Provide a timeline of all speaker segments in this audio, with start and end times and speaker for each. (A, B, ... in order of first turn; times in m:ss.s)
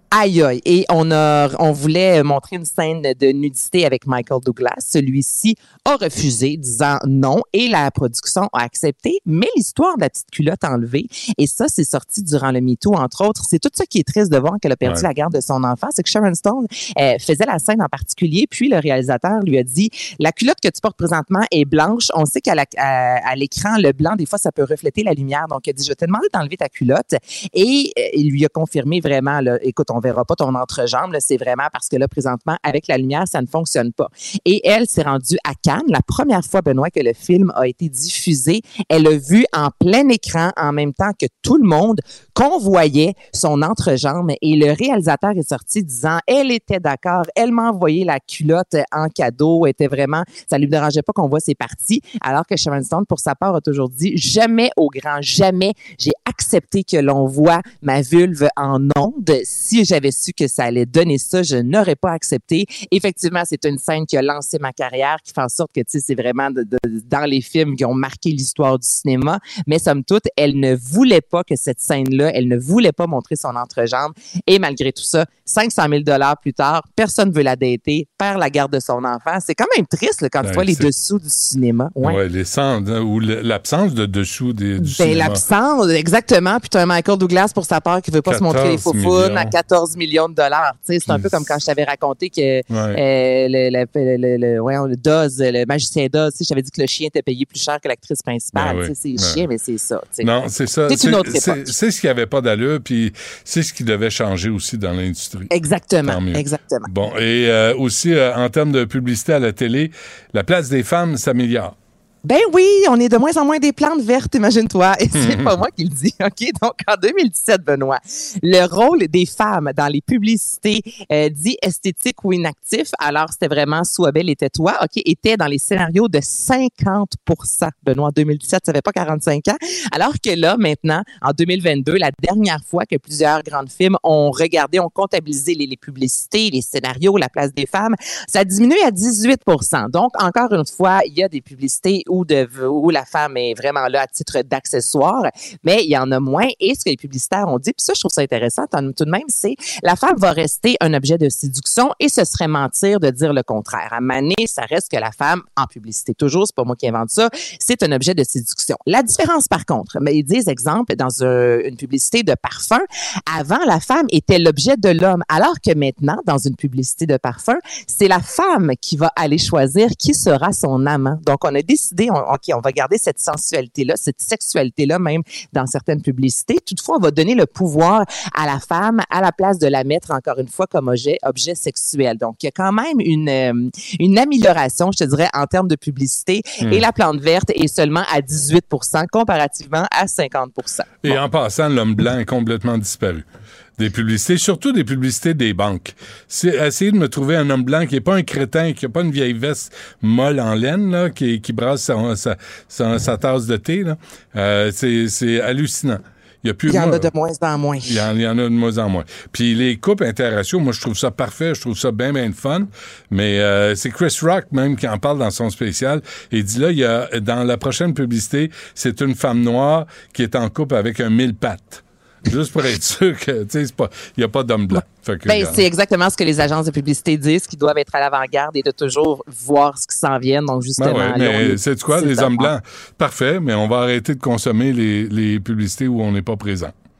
0:00.1-1:22.2 A
1:20.4-1:20.9 B
1:22.0-1:25.4 B
1:24.8-1:40.3 A
1:28.2-1:29.5 B
1:31.0-1:31.6 B
1:32.7-1:33.0 B
1:38.5-1:39.4 B
1:40.2-1:45.5 B
1:40.9-1:41.7 A
1:45.5-1:46.9 A
1:46.0-1:51.7 B
1:52.2-3:11.2 A
1:55.1-1:55.5 B
3:11.0-3:13.3 B
3:13.8-3:27.1 B
3:26.7-3:28.0 A
3:27.8-3:45.6 B
3:44.7-3:52.5 A
3:50.8-3:56.7 B